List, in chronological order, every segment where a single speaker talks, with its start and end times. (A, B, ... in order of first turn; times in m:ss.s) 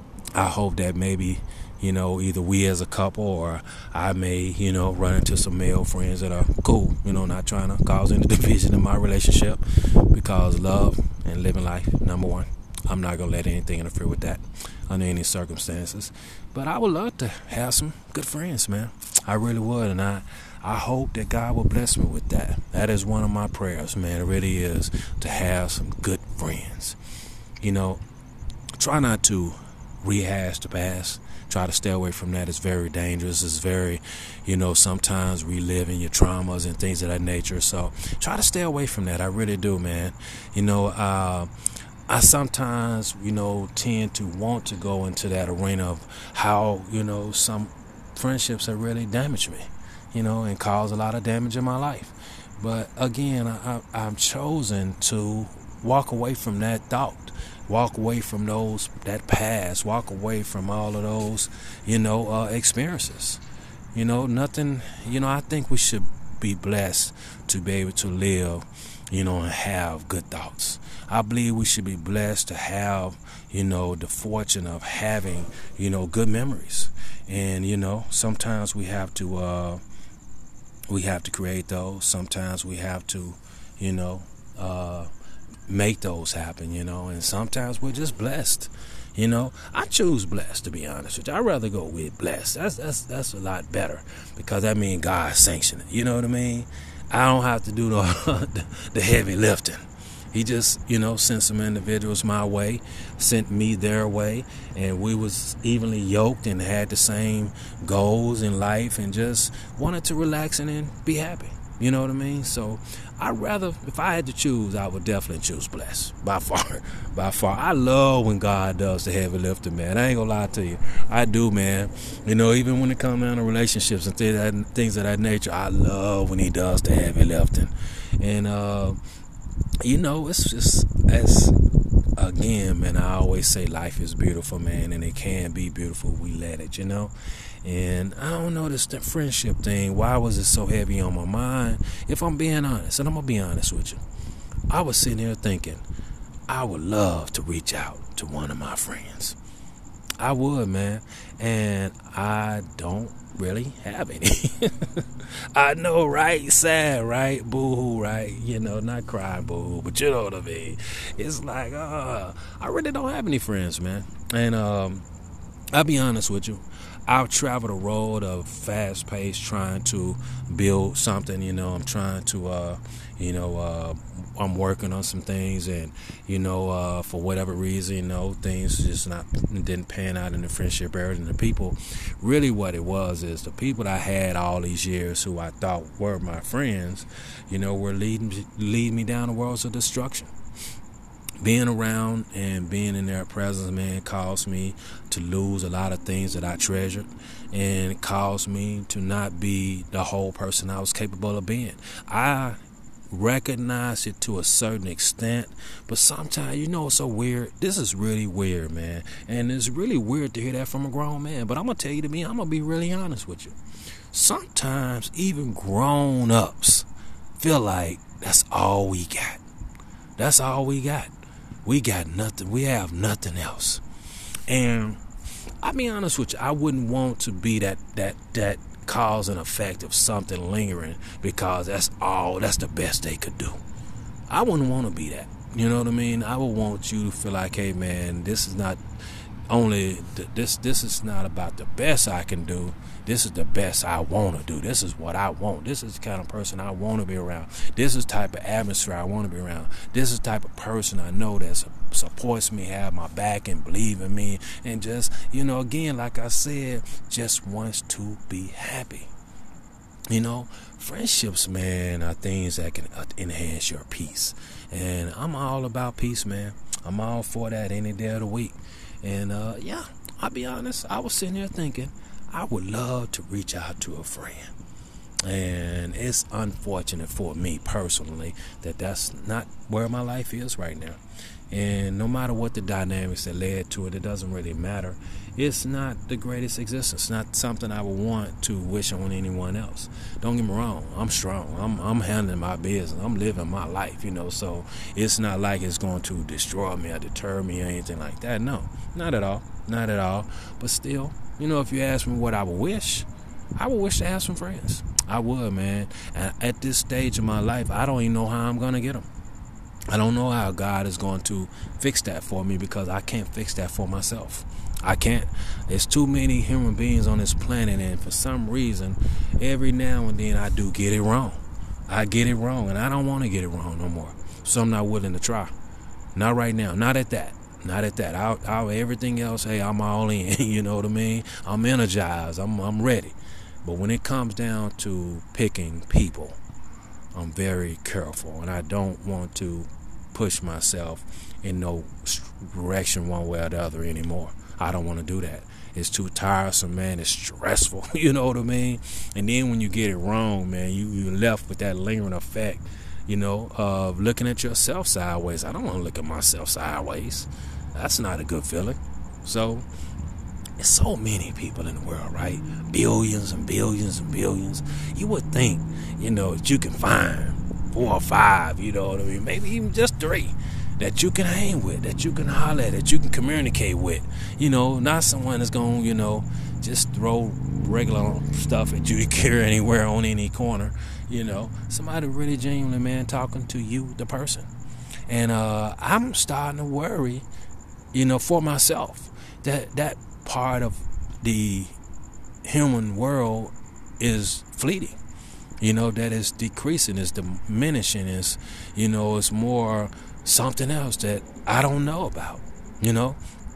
0:00.3-0:27.0 A
0:27.6-0:28.0 A
0:28.8-0:41.5 A
0:42.1-1:03.4 A
1:03.9-1:19.8 A
1:20.9-1:25.1 A
1:25.7-2:09.0 A
2:09.8-2:11.6 A
2:12.2-2:24.0 A
2:24.7-2:25.8 A
2:26.5-2:29.4 A
2:30.2-2:45.0 A
2:45.7-3:10.3 A
3:11.4-3:22.6 A
3:23.1-3:33.5 A
3:34.1-3:39.4 A
3:40.2-3:41.1 A
3:41.6-3:43.8 A
3:44.5-3:45.0 A
3:45.6-3:53.6 A
3:54.3-3:58.8 A
3:59.5-4:19.1 A
4:20.1-4:34.5 A
4:35.2-4:41.0 A
4:41.5-5:09.1 A
5:09.9-5:25.5 A
5:26.1-5:36.4 A
5:37.1-5:59.6 A
6:00.6-6:24.5 A
6:25.1-6:27.2 A
6:27.9-6:31.7 A
6:32.4-6:35.0 A
6:35.6-6:43.2 A